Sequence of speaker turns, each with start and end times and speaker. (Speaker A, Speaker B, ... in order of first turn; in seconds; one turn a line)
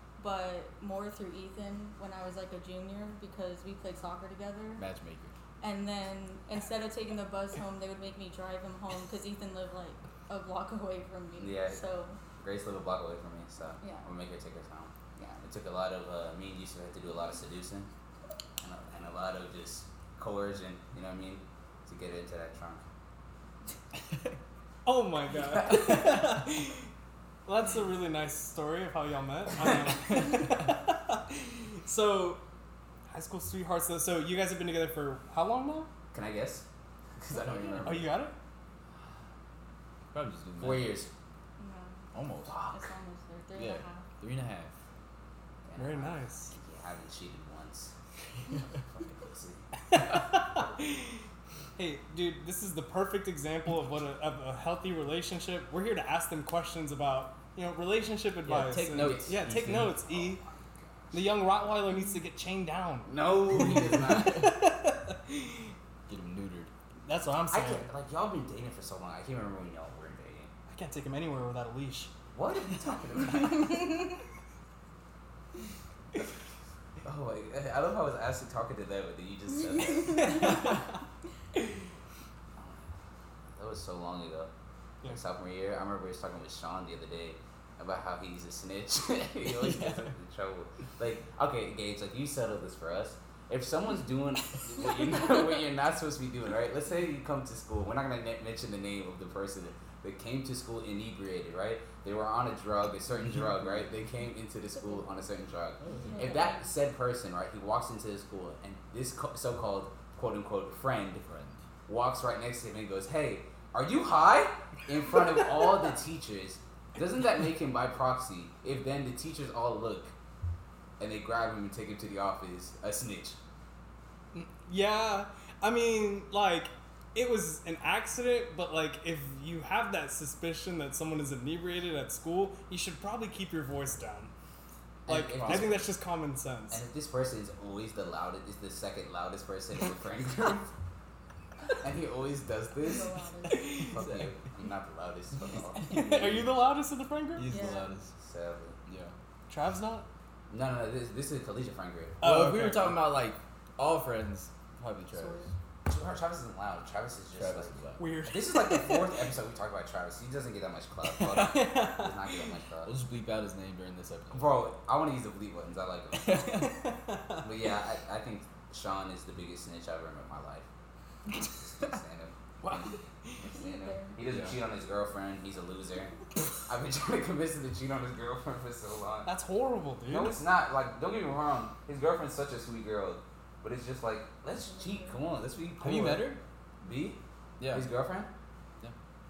Speaker A: 0.2-4.8
Speaker B: 4.8-5.3
Speaker A: 5.6-12.2
Speaker C: 11.4-11.8
Speaker C: 12.4-17.9
Speaker A: 13.8-14.1
Speaker A: 15.2-15.4
Speaker C: 18.6-22.8
Speaker D: 24.8-26.9
Speaker D: 27.4-32.4
Speaker D: 33.1-35.9
Speaker C: 36.1-36.6
Speaker C: 37.2-38.1
Speaker B: 37.4-38.1
Speaker D: 37.8-38.3
Speaker B: 40.1-41.0
Speaker C: 40.6-41.1
Speaker A: 41.6-42.0
Speaker B: 42.1-42.6
Speaker C: 42.5-42.8
Speaker A: 42.7-44.0
Speaker B: 43.5-44.7
Speaker C: 45.6-47.9
Speaker D: 45.8-46.5
Speaker C: 48.9-49.6
Speaker D: 49.9-51.1
Speaker D: 51.8-60.4
Speaker B: 58.5-60.0
Speaker C: 59.1-61.2
Speaker D: 61.1-65.7
Speaker C: 63.1-64.5
Speaker B: 63.9-64.4
Speaker B: 66.1-66.7
Speaker D: 67.0-67.9
Speaker C: 67.5-70.5
Speaker D: 70.7-72.1
Speaker C: 72.3-74.0
Speaker C: 77.0-80.8
Speaker D: 80.2-80.6
Speaker C: 82.6-82.9
Speaker C: 83.6-84.5
Speaker C: 85.0-111.2
Speaker B: 89.4-90.1
Speaker A: 104.8-105.1
Speaker B: 105.8-106.4
Speaker A: 106.1-106.7
Speaker B: 111.2-111.6
Speaker C: 111.9-120.1
Speaker C: 121.0-123.4
Speaker D: 124.3-134.3
Speaker C: 135.1-135.8
Speaker D: 135.1-136.8
Speaker B: 135.3-135.8
Speaker C: 136.7-140.7
Speaker C: 141.7-145.8
Speaker A: 142.8-143.6
Speaker B: 143.8-144.3
Speaker B: 145.7-146.6
Speaker D: 145.9-147.5
Speaker B: 147.3-148.1
Speaker A: 147.5-147.9
Speaker C: 148.1-148.8
Speaker B: 148.9-149.1
Speaker D: 149.5-150.1
Speaker C: 150.5-152.2
Speaker D: 152.2-153.1
Speaker B: 152.2-155.5
Speaker C: 155.9-157.7
Speaker B: 157.3-158.0
Speaker D: 158.0-159.2
Speaker C: 158.3-162.9
Speaker B: 161.2-161.7
Speaker D: 161.3-162.3
Speaker B: 162.8-164.5
Speaker C: 164.3-166.4
Speaker B: 166.2-166.8
Speaker D: 166.6-167.4
Speaker C: 167.4-170.7
Speaker C: 171.4-176.1
Speaker D: 172.6-173.4
Speaker A: 173.5-174.2
Speaker B: 174.2-174.6
Speaker C: 176.7-179.3
Speaker D: 179.2-180.4
Speaker C: 180.1-187.2
Speaker A: 184.6-185.2
Speaker B: 185.8-186.4
Speaker B: 187.6-187.9
Speaker C: 187.7-188.3